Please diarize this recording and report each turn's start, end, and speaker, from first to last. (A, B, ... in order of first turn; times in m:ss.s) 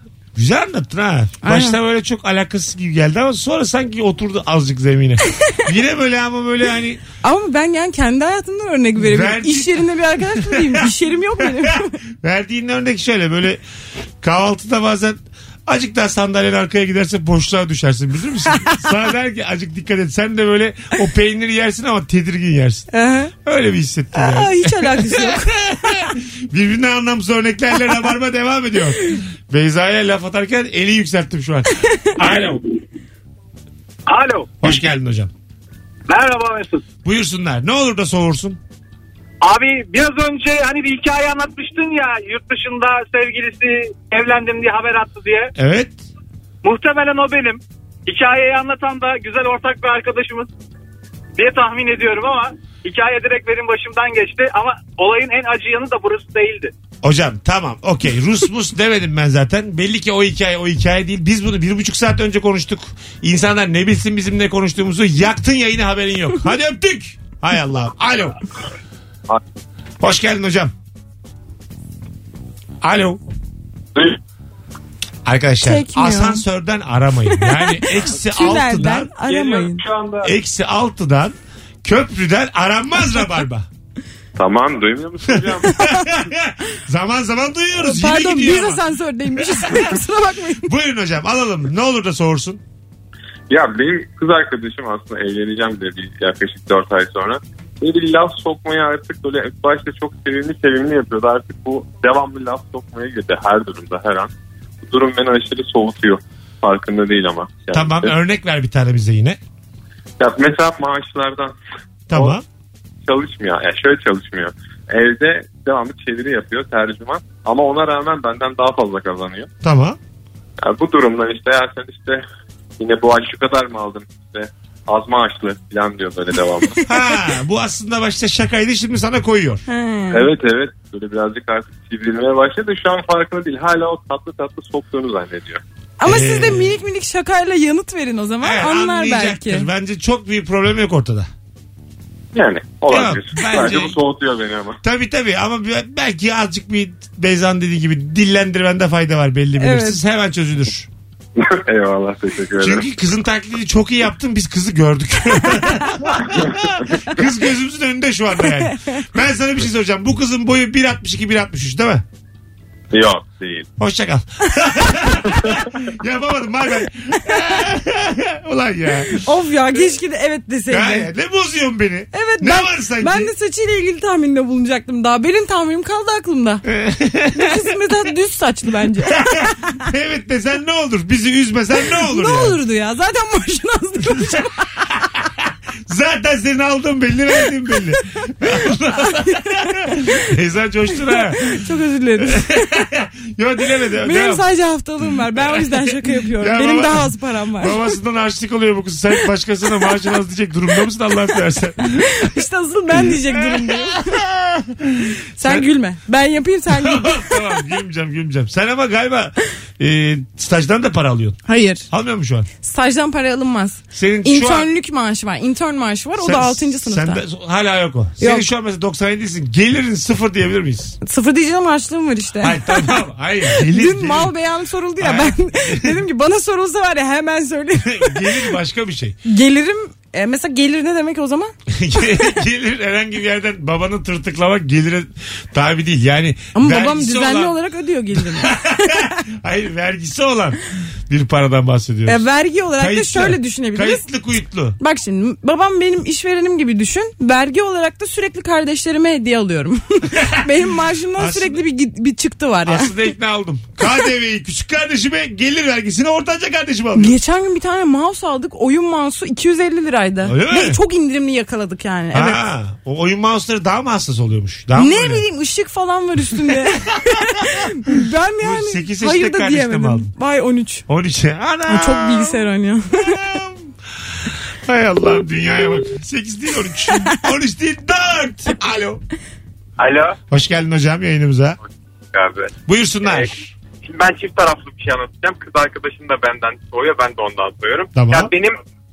0:00.4-0:07.0 A
0:01.4-0:01.8 B
0:07.2-0:12.0 B
0:09.0-0:13.6 A
0:14.2-0:22.9 A
0:18.5-0:18.8 B
0:22.9-0:23.3 B
0:23.4-0:32.6 A
0:24.1-0:25.6 B
0:31.8-0:32.1 B
0:34.1-0:34.5 C
0:34.6-0:35.3 A
0:36.1-0:36.8 C
0:37.0-0:38.6 A
0:39.4-0:45.5 C
0:45.6-0:46.0 A
0:46.6-0:50.5 C
0:51.4-0:56.7 C
0:57.0-1:08.4 A
1:10.0-1:10.7 A
1:12.8-1:13.2 A
1:15.2-1:19.2 A
1:15.6-1:16.4 B
1:17.3-1:19.8 B
1:19.3-1:20.3 D
1:20.2-1:23.7 A
1:24.4-1:25.8 D
1:25.4-1:28.8 A
1:25.8-1:26.0 B
1:27.8-1:30.7 B
1:29.4-1:30.0 A
1:30.6-1:32.6 A
1:33.5-1:44.3 D
1:44.8-1:48.1 D
1:47.7-1:49.4 A
1:50.2-1:51.5 D
1:52.1-1:52.4 A
1:52.1-1:52.4 D
1:53.1-1:59.5 D
1:59.6-2:00.0 A
2:00.6-2:02.2 D
2:02.8-2:06.8 D
2:06.8-2:09.6 A
2:09.7-2:10.3 B
2:10.1-2:15.6 D
2:16.0-2:19.7 B
2:16.0-2:16.8 A
2:18.4-2:21.3 A
2:22.3-2:24.8 D
2:22.9-2:24.0 A
2:24.8-2:30.9 A
2:29.6-2:30.0 B
2:31.4-2:32.9 D
2:32.6-2:42.0 A
2:38.7-2:39.0 B
2:42.9-2:43.7 D
2:43.8-2:49.2 A
2:49.2-2:51.1 B
2:50.7-2:53.3 A
2:52.1-2:56.6 B
2:56.7-2:57.8 A
2:57.3-2:59.8 B
2:59.2-3:02.6 A
3:02.0-3:04.9 B
3:05.9-3:11.6 A
3:09.0-3:10.1 B
3:11.0-3:12.7 B
3:12.2-3:14.4 A
3:14.0-3:17.8 B
3:15.4-3:22.3 A
3:22.0-3:24.2 B
3:22.9-3:25.7 A
3:25.4-3:27.4 B
3:26.7-3:32.5 A
3:31.5-3:31.9 B
3:32.6-3:37.2 B
3:33.9-3:34.7 A
3:36.2-3:41.0 A
3:38.2-3:38.5 B
3:41.0-3:42.9 B
3:42.4-3:44.3 A
3:43.5-3:48.5 B
3:45.0-3:46.0 A
3:47.8-3:49.2 A
3:49.2-3:51.5 B
3:51.7-3:57.6 A
3:56.6-3:59.2 B
3:58.2-4:02.2 A
4:02.1-4:04.0 B
4:02.8-4:04.8 A
4:04.8-4:13.0 B
4:10.1-4:10.5 A
4:11.2-4:11.6 A
4:12.6-4:17.2 A
4:17.0-4:22.4 B
4:20.2-4:20.8 A
4:22.1-4:25.2 A
4:24.8-4:30.8 B
4:26.5-4:26.9 A
4:28.4-4:30.1 A
4:30.9-4:32.4 A
4:31.7-4:33.2 B
4:33.0-4:33.7 A
4:34.2-4:39.0 A
4:39.8-4:40.2 E
4:40.3-4:41.6 A
4:42.1-4:42.5 E
4:42.7-4:43.3 A
4:43.0-4:48.6 E
4:48.0-4:48.3 A